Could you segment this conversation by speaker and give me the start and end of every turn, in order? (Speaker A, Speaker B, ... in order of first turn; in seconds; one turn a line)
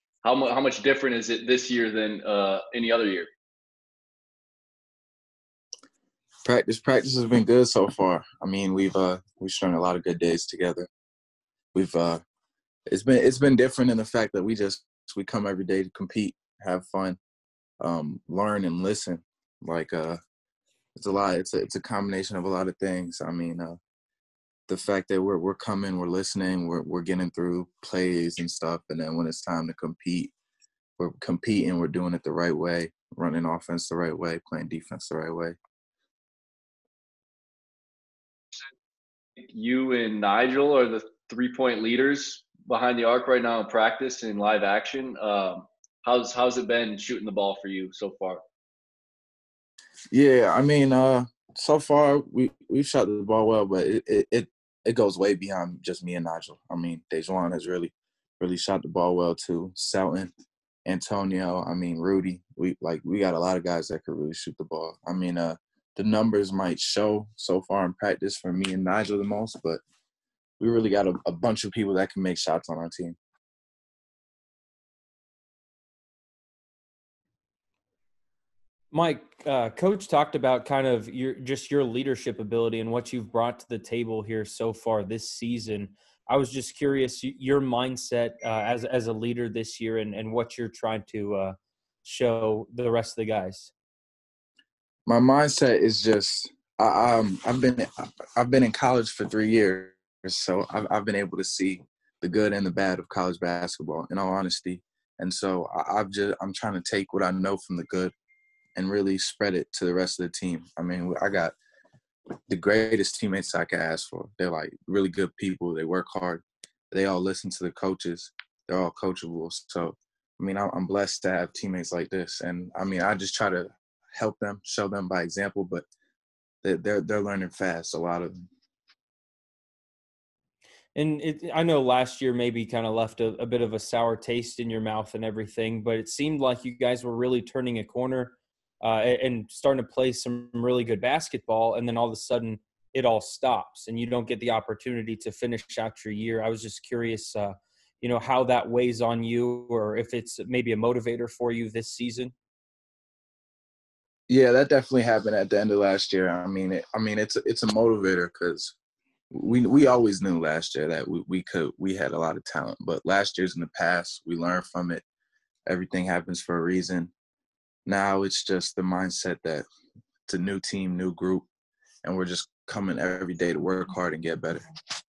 Speaker A: 0.2-3.3
Speaker B: 6.4-10.9
Speaker B: 11.7-12.2
Speaker B: 12.9-17.2
Speaker B: 17.8-20.2
Speaker B: 21.0-23.8
Speaker B: 24.7-30.3
Speaker B: 31.0-35.6
Speaker A: 39.4-48.4
Speaker B: 50.1-60.3
Speaker B: 60.9-69.8
Speaker B: 70.6-73.2
Speaker C: 78.9-93.7
Speaker B: 95.1-97.8
Speaker B: 98.4-108.1
Speaker B: 108.8-111.6
Speaker B: 112.5-125.8
Speaker B: 126.6-128.3
Speaker C: 130.9-152.3
Speaker B: 154.3-158.8
Speaker B: 159.3-165.0
Speaker B: 165.7-167.1
Speaker B: 167.9-169.7
Speaker B: 170.3-171.5
Speaker B: 172.0-174.6